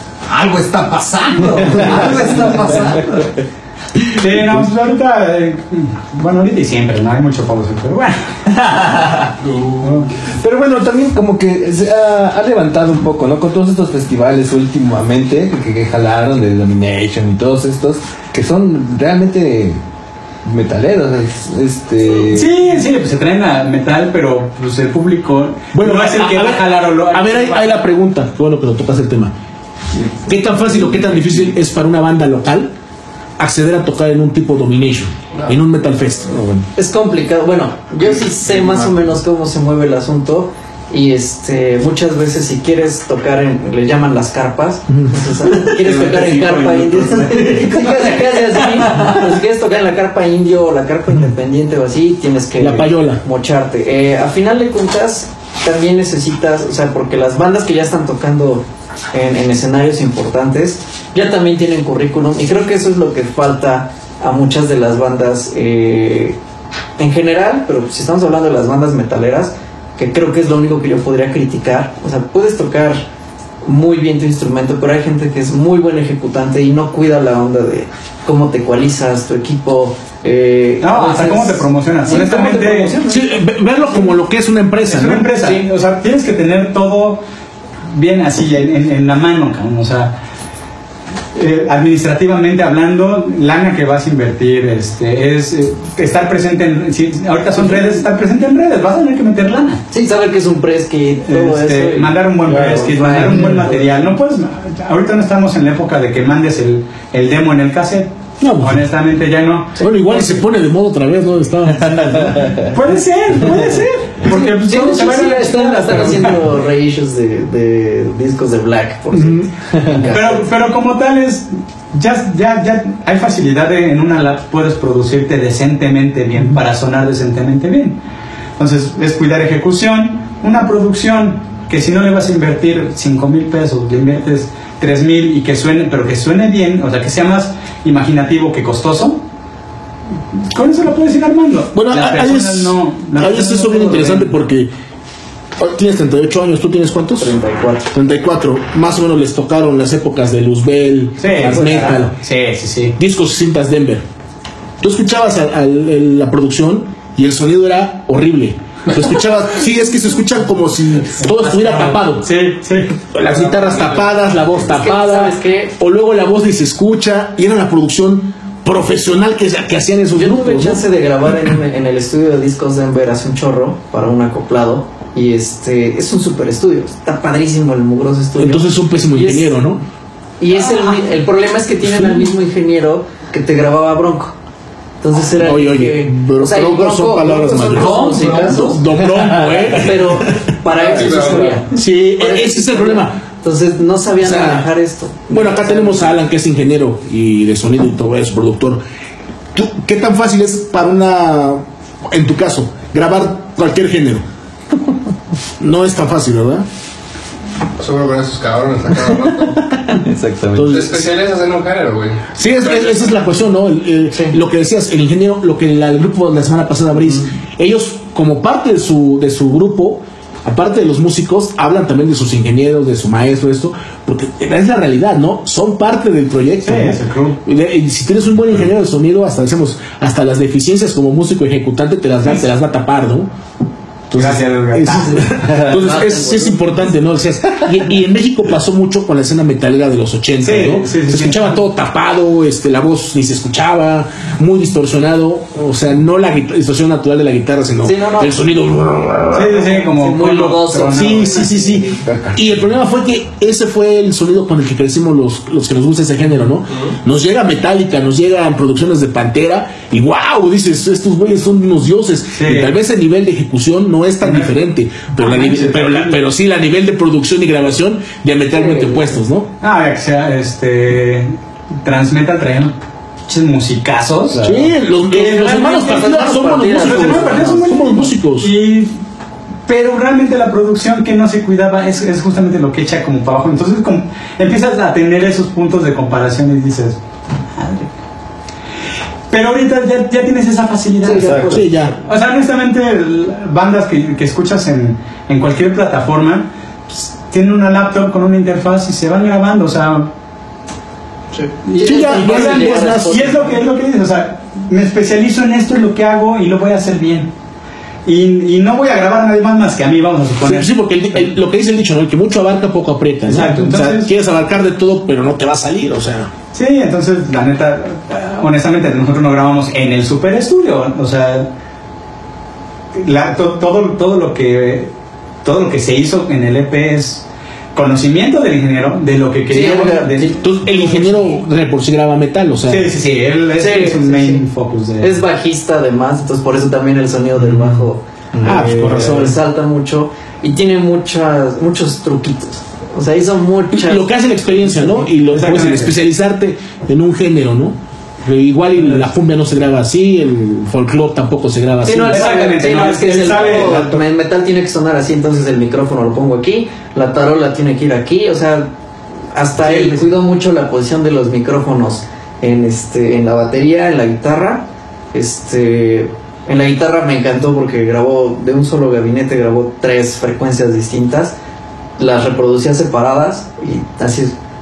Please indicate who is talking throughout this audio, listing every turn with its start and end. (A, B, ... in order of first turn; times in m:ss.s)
0:00.3-0:03.4 A
0:01.7-0:03.0 B
0:04.2-0:08.4 C
0:08.6-0:09.3 A
0:09.4-0:10.0 D
0:09.8-0:10.1 C
0:10.4-0:19.8 A
0:20.4-0:22.5 A
0:22.2-0:27.7 C
0:25.7-0:29.3 E
0:30.3-0:32.7 E
0:33.4-0:36.7 E
0:36.8-1:06.4 B
0:38.4-0:38.9 D
0:45.6-0:47.9 A
0:52.6-0:53.2 E
1:07.0-1:13.0 B
1:13.6-1:23.2 B
1:20.8-1:23.0 C
1:23.0-1:25.4 E
1:24.9-1:27.2 C
1:25.4-1:25.7 B
1:27.9-1:30.2 C
1:31.3-1:39.8 C
1:37.6-1:38.0 B
1:39.9-1:44.0 B
1:41.3-1:49.8 C
1:43.2-1:43.5 E
1:48.4-1:48.9 E
1:49.8-1:52.3 E
1:51.9-1:52.7 A
1:52.5-1:56.4 C
1:54.3-2:00.5 B
1:55.6-1:56.4 E
1:59.1-1:59.5 E
2:00.1-2:08.0 C
2:08.6-2:19.2 C
2:20.5-2:24.3 C
2:21.7-2:24.7 E
2:25.6-2:27.4 E
2:27.2-2:27.9 B
2:27.9-2:32.1 E
2:31.2-2:33.0 C
2:31.6-2:31.9 B
2:33.0-2:34.0 E
2:34.8-2:42.3 E
2:42.2-2:43.0 C
2:43.1-2:50.8 E
2:43.3-2:44.1 D
2:44.7-2:45.7 B
2:50.2-2:59.5 B
2:58.4-2:59.8 E
3:00.4-3:04.4 B
3:01.8-3:02.3 E
3:05.0-3:16.2 B
3:05.4-3:10.5 E
3:07.7-3:09.6 A
3:10.8-3:11.6 D
3:11.2-3:13.2 E
3:14.2-3:14.7 E
3:15.3-3:18.8 E
3:19.5-3:24.2 E
3:25.6-3:26.6 E
3:27.8-3:29.6 D
3:30.0-3:30.8 A
3:30.5-3:31.1 E
3:30.6-3:33.2 D
3:32.4-3:53.3 E
3:46.6-3:47.4 C
3:54.1-4:09.8 E
3:54.1-3:55.6 C
3:55.6-3:56.8 B
4:00.4-4:01.6 C
4:07.8-4:08.3 B
4:09.3-4:11.4 C
4:09.9-4:12.3 B
4:10.9-4:29.5 E
4:22.3-4:22.7 C
4:24.2-4:24.6 C
4:25.1-4:26.2 C
4:28.6-4:29.2 B
4:29.6-4:32.8 C
4:33.3-4:36.2 C
4:34.4-4:38.5 E
4:35.1-4:37.6 B
4:36.8-4:39.0 C
4:39.7-4:47.0 C
4:47.6-4:47.9 C
4:49.3-5:00.1 C
4:51.0-4:52.0 E
4:51.2-4:51.6 A
5:01.4-5:03.6 B
5:01.6-5:07.3 C
5:01.8-5:03.4 E
5:08.0-5:11.3 C
5:10.4-5:16.3 E
5:13.3-5:14.1 C
5:16.5-5:21.5 C
5:22.9-5:24.9 C
5:25.4-5:31.4 C
5:29.5-5:30.3 B
5:29.6-5:32.9 E
5:32.7-5:35.2 C
5:33.6-5:34.4 B
5:35.0-5:44.0 B
5:38.4-5:38.6 C
5:38.4-5:39.4 E
5:43.7-5:52.3 E
5:45.2-5:46.0 C
5:51.8-5:58.7 B
5:52.1-5:54.0 C
5:59.3-6:11.3 B
5:59.6-6:00.0 C
6:12.0-6:14.4 B